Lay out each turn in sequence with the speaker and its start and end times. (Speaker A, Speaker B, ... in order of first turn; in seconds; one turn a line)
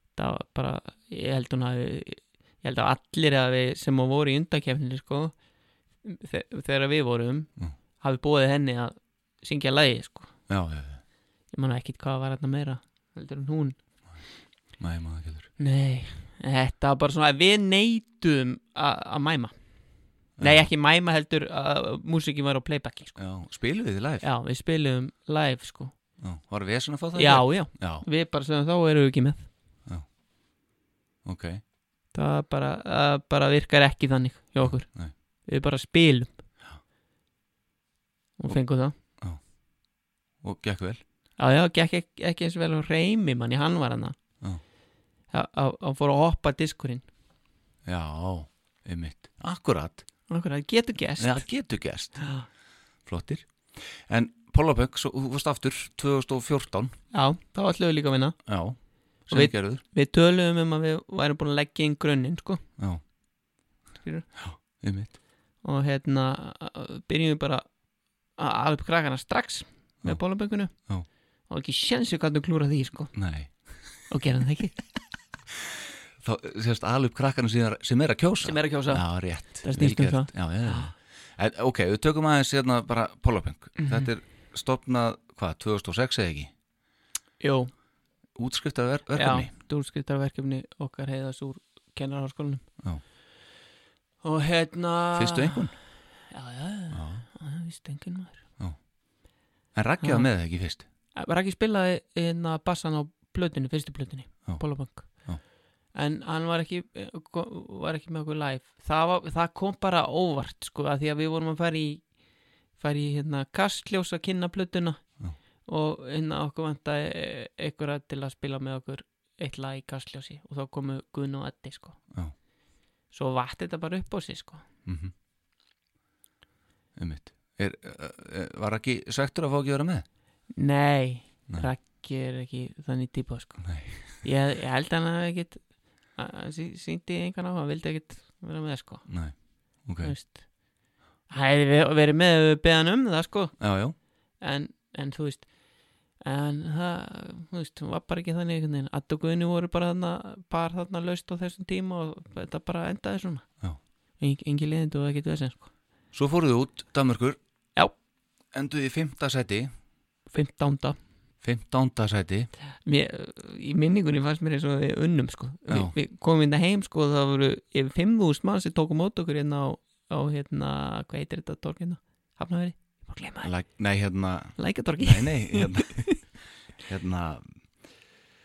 Speaker A: 0.2-5.3
Speaker A: 6.0-10.3
Speaker B: 10.5-11.0
Speaker A: 11.5-13.8
Speaker B: 14.8-15.5
Speaker A: 15.6-19.6
Speaker B: 20.4-20.7
Speaker A: 20.4-23.2
Speaker B: 23.2-24.3
Speaker A: 24.2-25.9
Speaker B: 26.2-28.1
Speaker A: 27.1-29.5
Speaker B: 31.2-31.6
Speaker A: 32.1-34.9
Speaker B: 34.6-35.1
Speaker A: 35.5-36.3
Speaker A: 38.4-39.0
Speaker B: 40.4-41.0
Speaker A: 41.4-44.2
Speaker A: 45.3-47.1
Speaker B: 47.9-50.1
Speaker A: 50.3-51.5
Speaker B: 51.2-52.2
Speaker A: 52.2-52.5
Speaker B: 53.1-57.0
Speaker A: 57.1-58.4
Speaker B: 58.5-59.8
Speaker A: 59.3-62.6
Speaker A: 64.0-64.3
Speaker B: 64.4-65.2
Speaker A: 65.6-67.7
Speaker A: 68.4-70.8
Speaker A: 71.5-73.1
Speaker B: 73.1-73.7
Speaker A: 74.1-74.8
Speaker B: 76.2-86.5
Speaker A: 78.4-80.9
Speaker A: 83.8-84.1
Speaker A: 87.4-87.7
Speaker B: 88.4-89.5
Speaker A: 89.2-92.7
Speaker A: 94.2-95.7
Speaker B: 95.1-95.8
Speaker A: 96.3-98.4
Speaker B: 96.9-97.2
Speaker B: 99.7-100.9
Speaker A: 100.0-100.3
Speaker A: 101.1-105.1
Speaker B: 105.2-105.4
Speaker A: 105.9-112.1
Speaker A: 112.8-115.1
Speaker A: 115.7-122.0
Speaker A: 123.1-124.7
Speaker B: 124.9-125.1
Speaker B: 127.0-130.1
Speaker A: 130.5-135.6
Speaker B: 133.6-134.2
Speaker A: 136.2-139.1
Speaker B: 139.1-140.1
Speaker A: 140.0-140.4
Speaker A: 141.3-143.6
Speaker B: 143.6-143.9
Speaker A: 144.4-145.5
Speaker A: 146.2-153.5
Speaker A: 154.2-155.7
Speaker B: 156.1-157.4
Speaker B: 158.5-159.7
Speaker A: 160.3-161.0
Speaker B: 161.4-162.5
Speaker A: 162.8-173.5
Speaker B: 165.7-165.9
Speaker B: 173.4-176.3
Speaker A: 174.6-176.2
Speaker B: 176.9-177.6